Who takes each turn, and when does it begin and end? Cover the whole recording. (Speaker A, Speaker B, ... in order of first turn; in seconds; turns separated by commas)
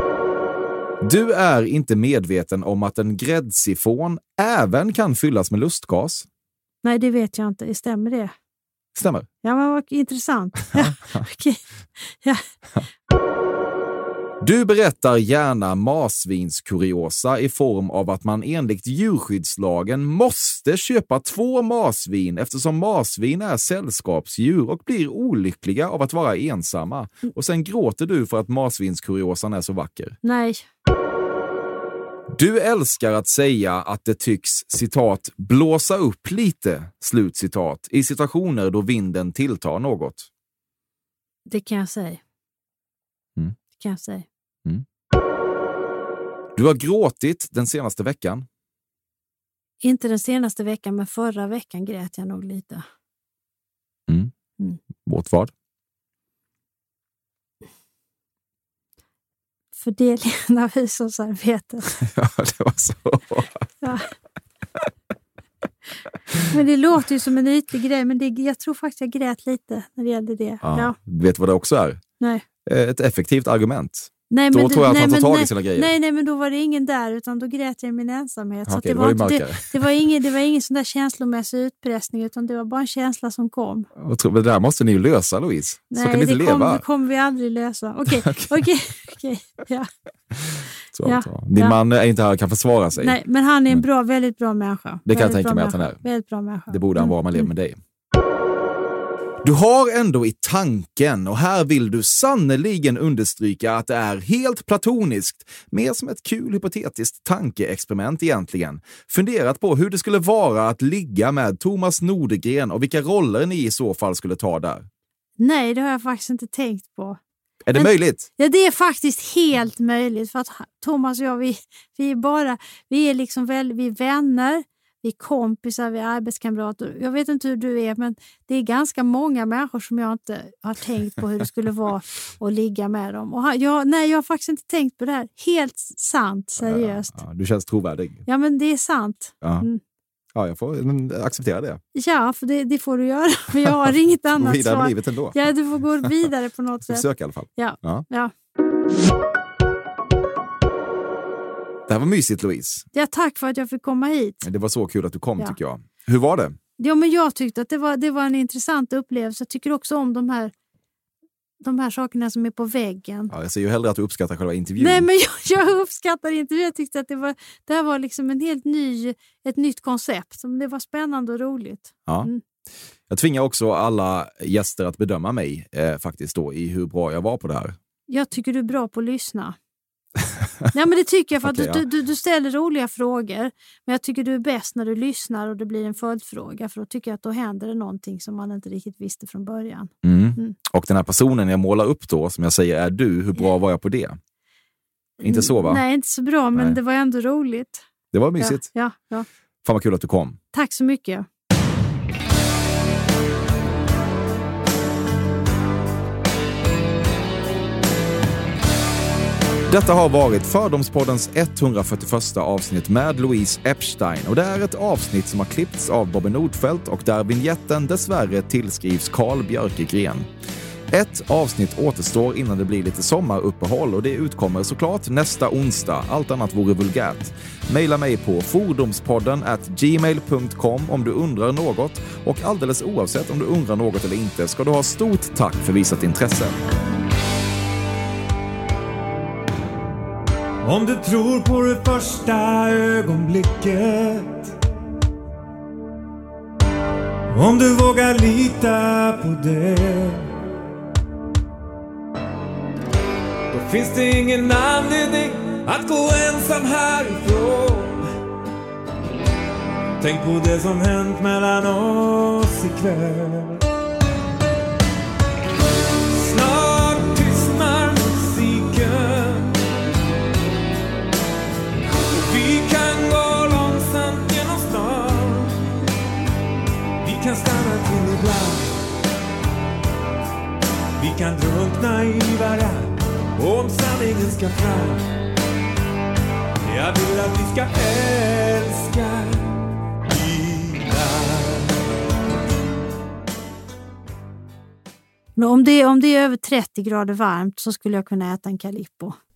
Speaker A: 1.0-6.3, Speaker B: 6.8-8.3, Speaker A: 8.9-9.3, Speaker B: 9.4-12.4, Speaker A: 10.7-11.2, Speaker A: 14.4-30.2, Speaker B: 30.2-30.6, Speaker A: 32.3-40.3, Speaker B: 41.5-42.2, Speaker B: 43.7-44.3, Speaker A: 46.5-48.5, Speaker B: 49.8-52.8, Speaker A: 55.0-55.5, Speaker B: 59.7-61.9, Speaker A: 62.0-63.6, Speaker B: 63.8-64.1, Speaker B: 66.5-71.0, Speaker A: 70.6-72.0, Speaker A: 72.7-75.9, Speaker B: 74.3-83.9, Speaker A: 78.7-79.9, Speaker A: 84.0-86.8, Speaker B: 85.9-89.9, Speaker A: 88.1-88.7, Speaker A: 90.3-93.8, Speaker B: 91.0-91.8, Speaker B: 93.0-97.5, Speaker A: 95.0-96.0, Speaker A: 96.7-97.8, Speaker A: 99.4-114.9, Speaker B: 115.4-117.2, Speaker A: 117.7-118.3, Speaker B: 117.7-137.2, Speaker A: 136.6-138.2, Speaker B: 138.2-139.8, Speaker A: 139.4-139.7, Speaker A: 140.3-141.8, Speaker B: 141.9-148.3, Speaker A: 143.6-145.4, Speaker A: 146.9-148.1, Speaker A: 151.9-152.9, Speaker B: 152.9-154.4, Speaker A: 154.4-156.6, Speaker B: 156.8-160.5, Speaker B: 161.6-163.3, Speaker A: 163.3-165.1, Speaker B: 164.8-172.4, Speaker A: 173.1-177.8, Speaker B: 178.1-179.6, Speaker B: 180.7-190.6, Speaker A: 181.4-181.8, Speaker A: 190.0-194.2, Speaker B: 195.2-197.8, Speaker A: 195.2-195.8, Speaker A: 196.5-196.8, Speaker A: 198.1-198.6, Speaker B: 198.4-199.3, Speaker A: 199.6-200.4, Speaker B: 200.5-201.3, Speaker A: 209.7-220.3, Speaker A: 220.9-236.6, Speaker C: 240.6-244.5, Speaker C: 247.3-250.2, Speaker C: 253.5-258.0, Speaker C: 260.0-263.6, Speaker C: 266.1-269.5, Speaker C: 272.1-275.5, Speaker C: 277.0-278.7, Speaker C: 281.0-285.0, Speaker C: 286.7-289.4, Speaker C: 290.1-291.6, Speaker B: 295.4-299.2